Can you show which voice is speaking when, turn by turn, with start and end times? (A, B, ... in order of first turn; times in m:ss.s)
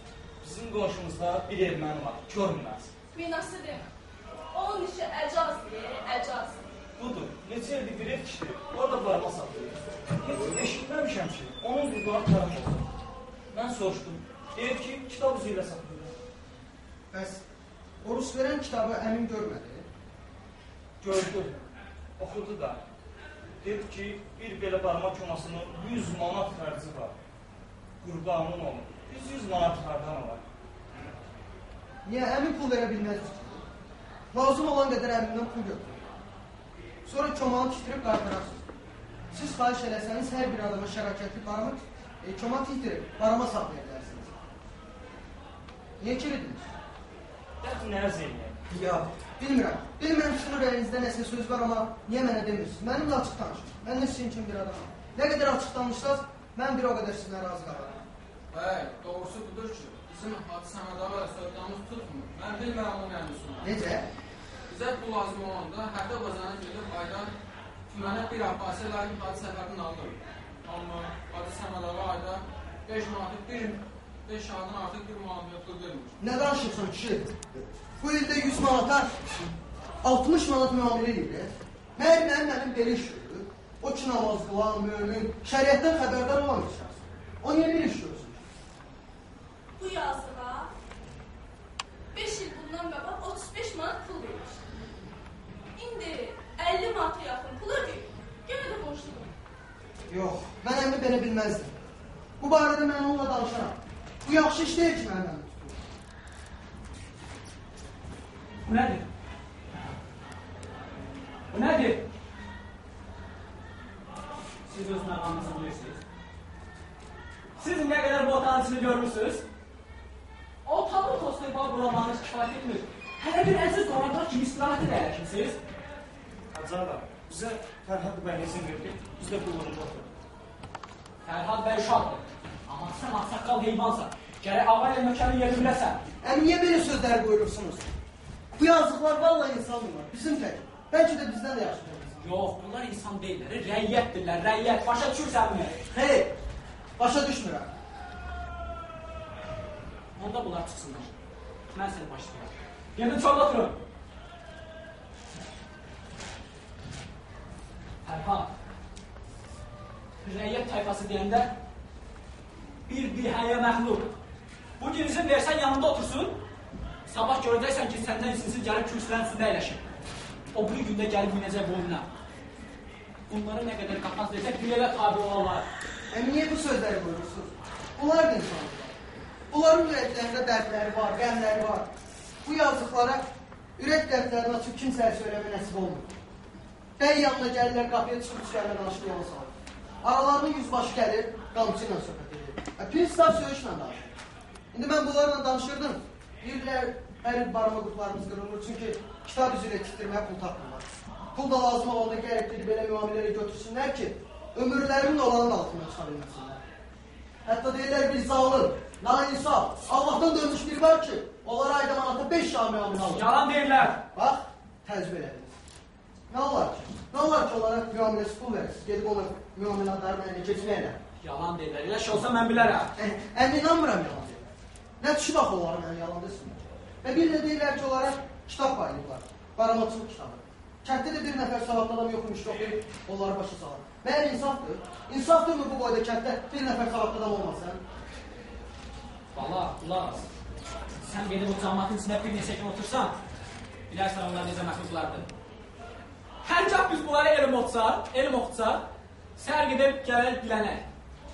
0:00.4-0:02.9 A
0:03.1-0:03.9 B
0:04.5-0:06.6 B
0:07.0-0:12.9 A
0:13.5-0:16.2 A
0:17.1-0:17.4 C
0:18.0-0:19.9 C
0:21.0-0:22.8 A
0:23.6-0:27.2 A
0:28.0-0:30.4 A
0:32.0-0:33.6 C
0:34.3-0:36.1 C
0:37.0-0:38.7 C
0:39.3-0:44.3 C
0:46.0-0:46.7 C
0:47.6-0:48.6 A
0:48.7-0:58.0 C
0:58.5-1:03.7 D
1:03.6-1:04.1 C
1:04.7-1:07.3 D
1:07.9-1:16.2 D
1:16.2-1:19.2 C
1:20.0-1:28.4 C
1:29.8-1:30.7 B
1:32.1-1:34.6 B
1:35.8-1:39.3 B
1:40.1-1:41.7 C
1:42.4-1:45.8 C
1:48.6-1:49.1 E
1:51.5-1:52.0 E
1:54.6-1:56.0 E
1:57.6-1:59.4 E
2:00.6-2:05.6 E
2:06.5-2:10.1 A
2:11.2-2:16.0 E
2:16.2-2:17.9 C
2:18.6-2:22.2 C
2:22.2-2:25.8 E
2:25.9-2:26.3 C
2:27.0-2:27.7 C
2:30.2-2:31.1 E
2:31.7-2:33.8 E
2:38.0-2:38.5 E
2:40.2-2:41.6 E
2:42.9-2:44.1 E
2:44.8-2:46.4 E
2:47.1-2:49.9 E
2:50.5-2:52.1 E
2:53.3-2:55.7 E
2:56.1-2:59.0 C
2:59.5-3:01.9 C
3:02.4-3:03.2 C
3:03.8-3:06.1 C
3:07.0-3:14.1 C
3:14.7-3:26.6 C
3:27.4-3:33.3 C
3:33.0-3:34.0 E
3:34.0-3:35.6 C
3:36.3-3:41.0 C
3:41.2-3:42.9 E
3:43.0-3:44.5 C
3:45.0-3:57.8 C
3:59.3-4:00.3 E
4:01.0-4:03.2 E
4:03.9-4:05.3 E
4:06.4-4:08.8 E
4:09.4-4:10.8 E